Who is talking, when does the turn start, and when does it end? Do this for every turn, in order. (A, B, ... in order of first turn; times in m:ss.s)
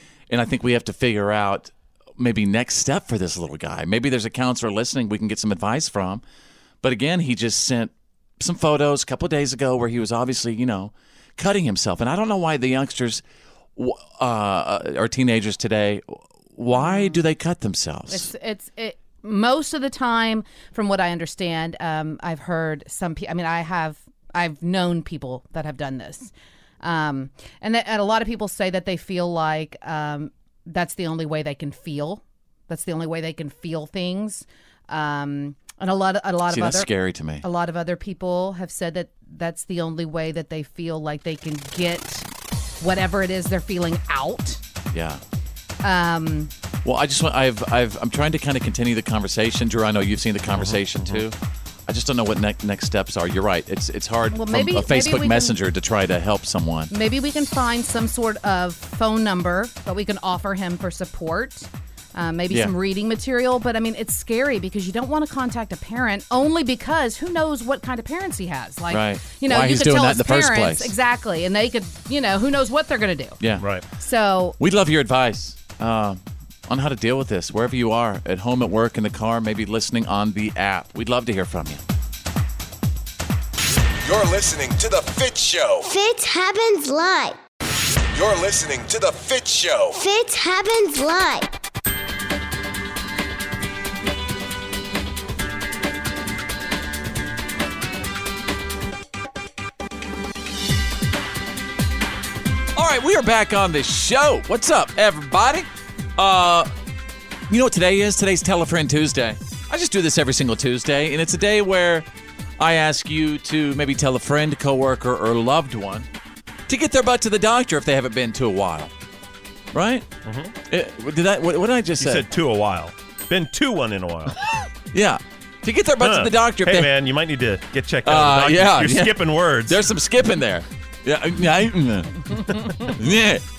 0:00.3-0:06.2 A
0:06.8-0:13.2 A
0:13.8-0:18.3 A
0:16.8-0:17.2 B
0:18.1-0:36.9 B
0:36.5-0:37.4 A
0:37.4-0:42.3 B
0:42.8-0:44.6 B
0:44.9-0:45.2 A
0:45.8-0:46.5 B
0:46.8-0:51.3 A
0:50.5-0:51.2 C
0:51.9-0:56.9 A
0:54.3-0:55.5 B
0:56.9-1:13.4 B
1:08.9-1:10.9 A
1:13.6-1:13.8 C
1:14.0-1:14.6 B
1:14.6-1:21.8 A
1:24.0-1:25.9 D
1:25.9-1:27.4 E
1:28.1-1:30.0 D
1:30.0-1:31.5 E
1:42.8-1:46.7 A
1:47.5-1:52.0 A
1:52.6-1:56.1 A
1:56.7-1:58.9 A
1:59.7-2:00.1 A
2:00.2-2:00.5 C
2:00.7-2:02.2 A
2:02.0-2:04.4 C
2:04.9-2:06.9 A
2:06.0-2:09.8 C
2:08.0-2:13.4 A